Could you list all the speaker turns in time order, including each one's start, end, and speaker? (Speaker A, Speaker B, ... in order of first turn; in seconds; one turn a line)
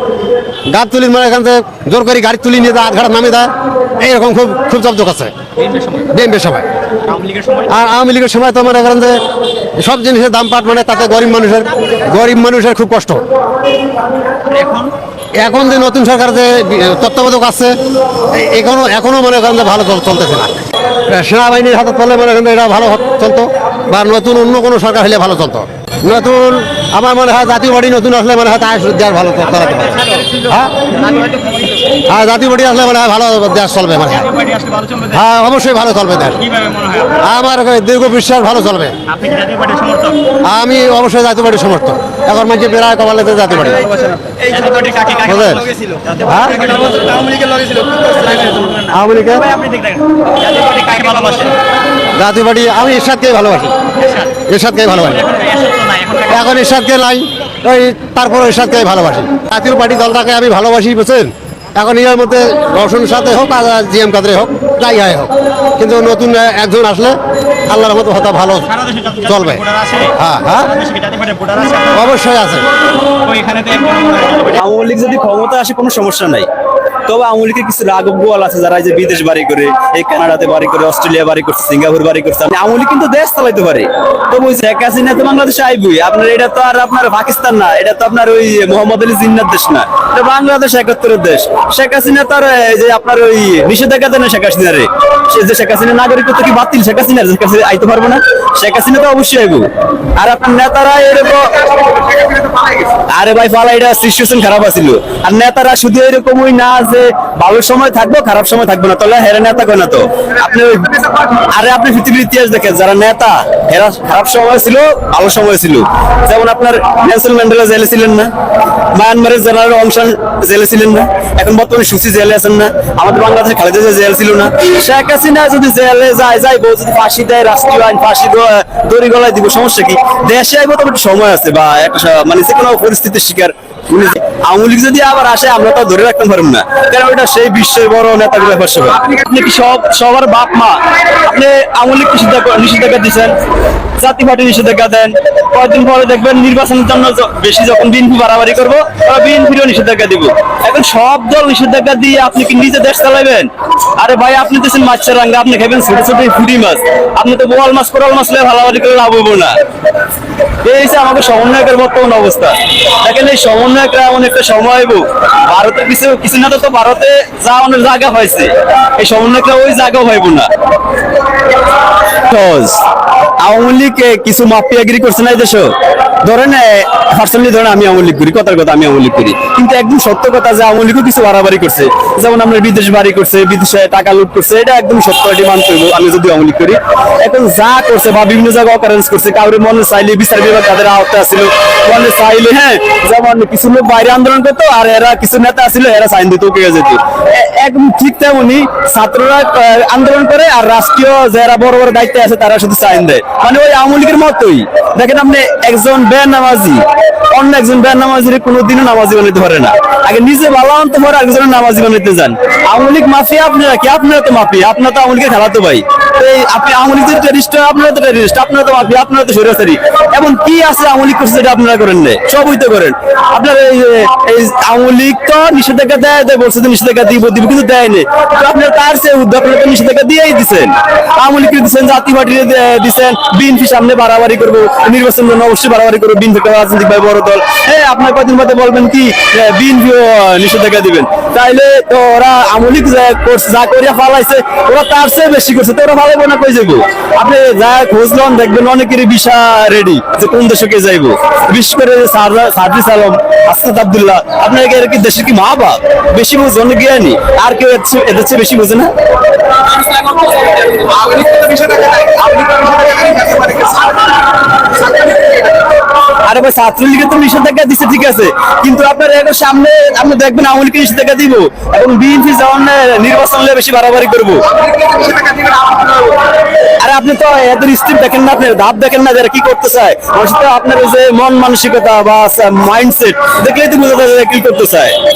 Speaker A: 0.7-5.3
Speaker B: 5.6-6.1
Speaker A: 6.1-6.7
Speaker B: 7.0-7.8
Speaker A: 7.7-9.2
Speaker A: 9.8-13.2
Speaker B: 14.5-14.9
Speaker A: 15.4-17.8
Speaker A: 18.3-20.5
Speaker A: 21.1-30.7
Speaker B: 29.5-30.2
Speaker B: 31.0-31.8
Speaker A: 32.1-34.2
Speaker B: 34.1-35.2
Speaker A: 35.1-36.4
Speaker B: 36.4-37.2
Speaker A: 37.2-39.0
Speaker B: 39.1-40.2
Speaker A: 40.5-43.8
Speaker B: 43.9-51.5
Speaker A: 45.3-45.6
Speaker A: 46.2-46.6
Speaker A: 48.9-49.5
Speaker A: 52.2-53.7
Speaker B: 54.0-54.4
Speaker A: 54.5-55.2
Speaker B: 54.9-56.6
Speaker A: 56.3-68.7
Speaker B: 68.6-72.1
Speaker A: 69.3-69.6
Speaker A: 70.2-70.7
Speaker A: 71.9-72.7
Speaker B: 73.2-74.6
Speaker C: 74.5-76.5
Speaker C: 77.1-99.7
Speaker C: 100.2-101.5
Speaker C: 103.1-110.9
Speaker C: 111.5-118.3
Speaker C: 118.9-143.3
Speaker C: 144.0-159.5
Speaker C: 160.6-170.5
Speaker C: 172.3-172.8
Speaker C: 173.4-175.7
Speaker C: 176.2-258.9
Speaker C: 259.8-263.9
Speaker C: 264.8-265.3
Speaker C: 266.2-275.9
Speaker C: 276.8-284.9